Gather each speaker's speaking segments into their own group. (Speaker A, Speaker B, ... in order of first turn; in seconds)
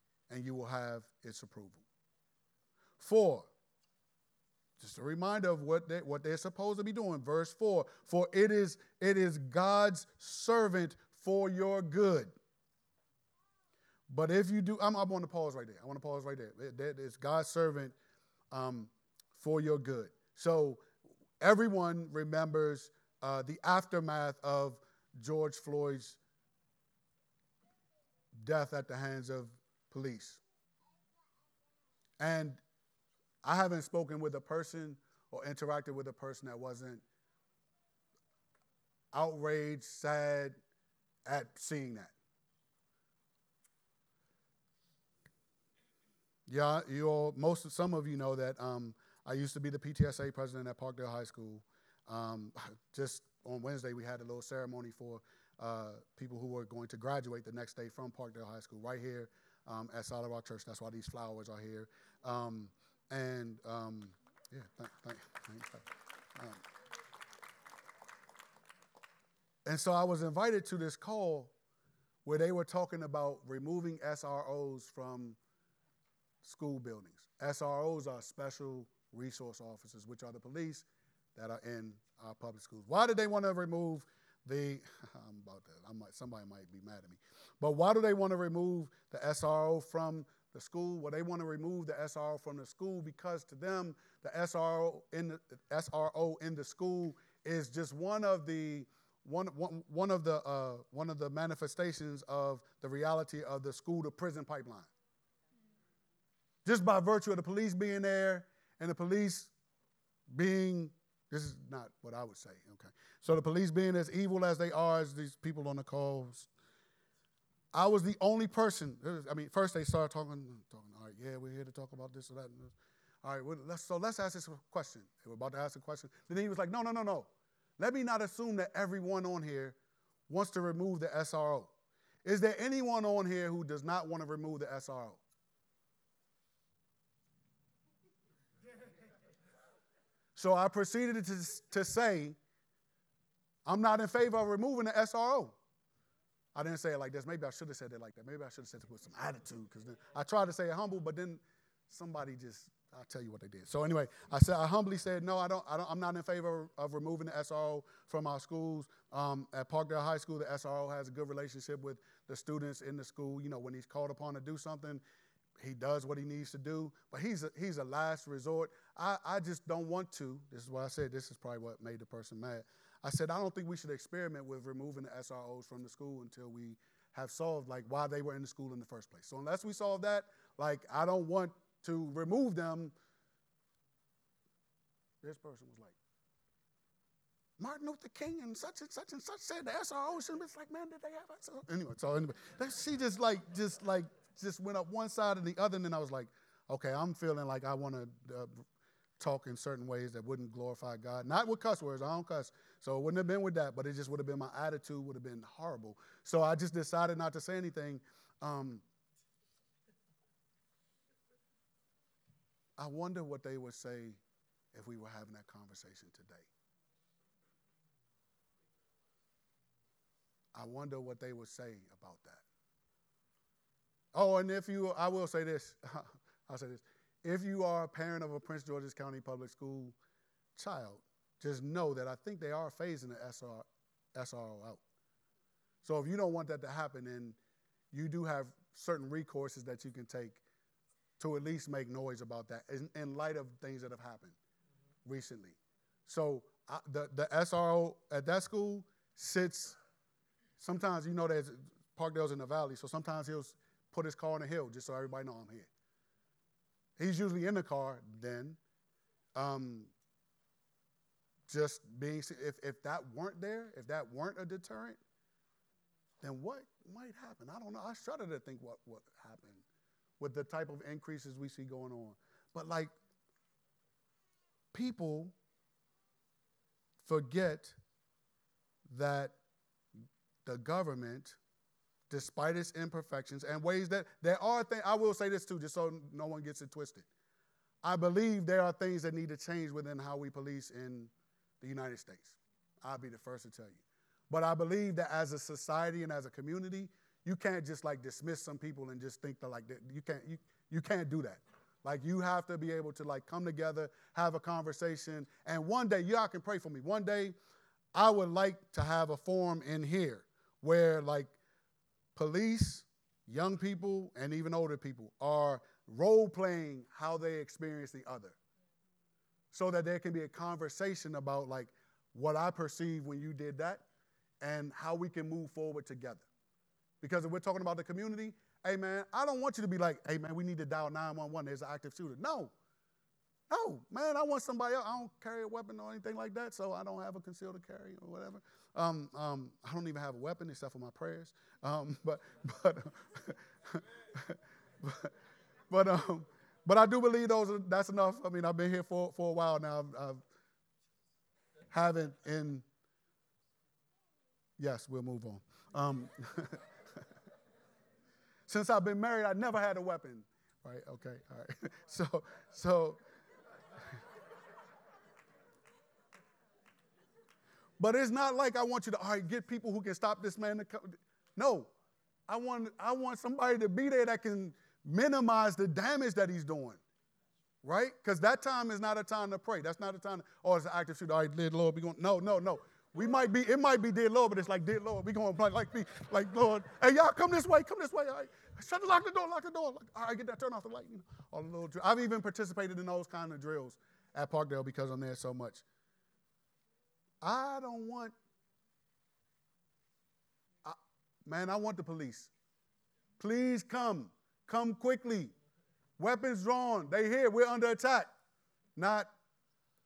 Speaker A: 0.3-1.8, 3.0-3.5, 4.8-12.3, 14.1-17.9, 18.5-20.8, 21.4-26.2, 28.4-30.4, 32.2-32.6, 33.4-37.0, 39.1-40.6, 41.2-42.1, 46.5-66.6, 69.7-71.5, 72.2-75.4, 76.4-104.9, 106.6-109.5, 110.3-116.5, 117.7-129.8, 130.3-131.7, 132.2-135.2, 140.3-142.3, 143.6-145.6, 146.5-165.0, 165.6-182.9, 185.2-185.9, 187.6-198.6, 199.2-208.8, 212.8-214.2, 214.7-216.5, 220.5-222.4, 224.1-229.9, 230.6-234.8, 235.8-237.4, 237.9-240.4, 241.2-244.3, 245.0-249.8, 250.6-255.7, 257.0-258.6, 259.3-259.9, 261.5-265.0, 266.2-269.6, 270.2-272.9, 274.7-275.3, 277.0-277.8, 278.9-279.4, 280.4-281.4, 282.1-287.1, 287.8-307.4, 307.9-311.4, 312.1-318.4, 319.5-323.9, 324.4-326.3, 327.0-332.5, 333.5-345.1, 345.7-350.2, 351.7-352.6, 354.6-356.6, 358.5-363.0, 367.8-371.7, 372.3-376.8, 377.6-395.6, 397.2-398.1, 400.6-402.3, 403.2-405.3, 406.0-408.1, 408.8-409.1